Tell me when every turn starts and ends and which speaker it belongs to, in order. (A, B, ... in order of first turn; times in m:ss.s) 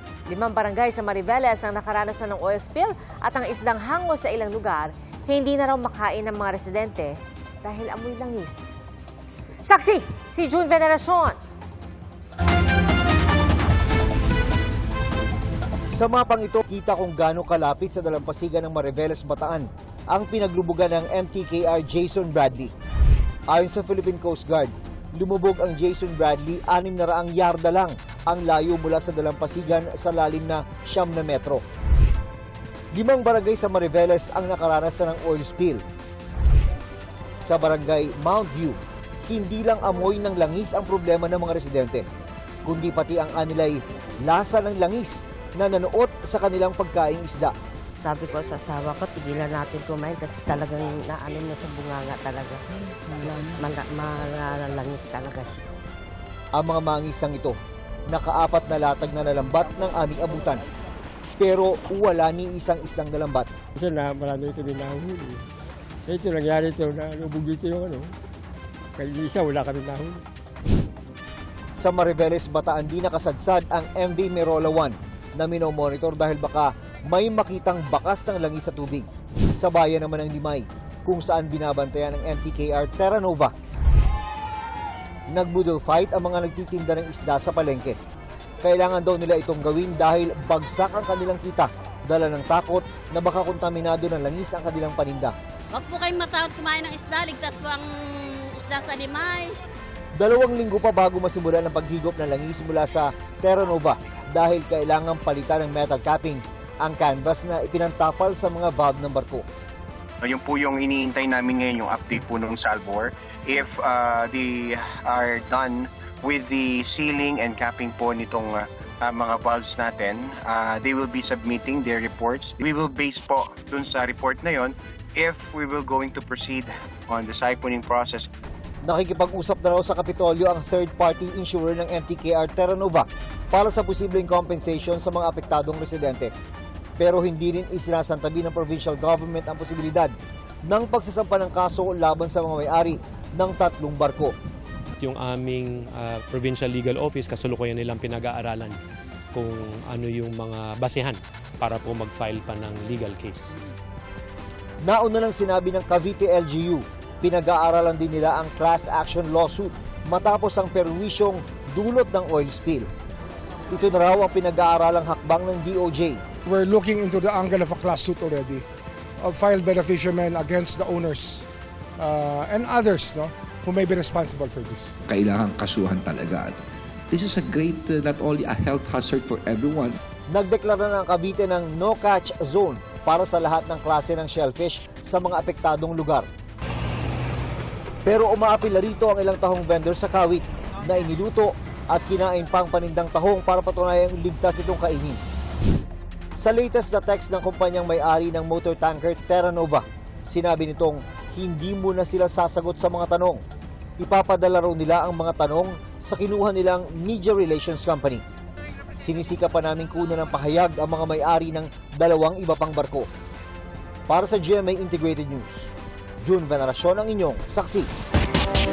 0:00.3-0:08.7 A
0:09.6-0:11.4 A
0:15.9-0:22.7 B
0:23.5-0:31.6 B
0:32.9-0:35.8 B
0:37.4-0:42.0 B
0:42.6-0:47.5 B
0:48.0-0:55.6 C
0:56.5-0:57.6 B
0:58.1-1:00.6 B
1:01.3-1:03.5 B
1:03.8-1:05.4 D
1:06.1-1:08.1 D
1:09.0-1:10.2 D
1:11.7-1:23.5 B
1:25.3-1:28.0 B
1:28.6-1:35.3 B
1:35.7-1:37.9 E
1:38.5-1:39.5 E
1:40.2-1:49.4 B
1:50.2-2:08.3 F
2:08.8-2:16.3 B
2:17.0-2:20.1 B
2:20.6-2:24.3 B
2:25.0-2:28.8 G
2:29.3-2:33.5 G
2:34.8-2:42.9 B
2:43.7-2:46.2 B
2:46.4-2:48.6 H
2:49.2-2:51.5 H
2:52.0-2:54.9 H
2:55.1-2:56.6 I
2:57.1-3:00.0 I
3:00.3-3:06.3 B
3:08.0-3:15.2 B
3:16.4-3:23.4 B
3:24.0-3:28.2 B
3:29.0-3:33.1 B
3:34.1-3:35.7 B
3:36.2-3:37.9 B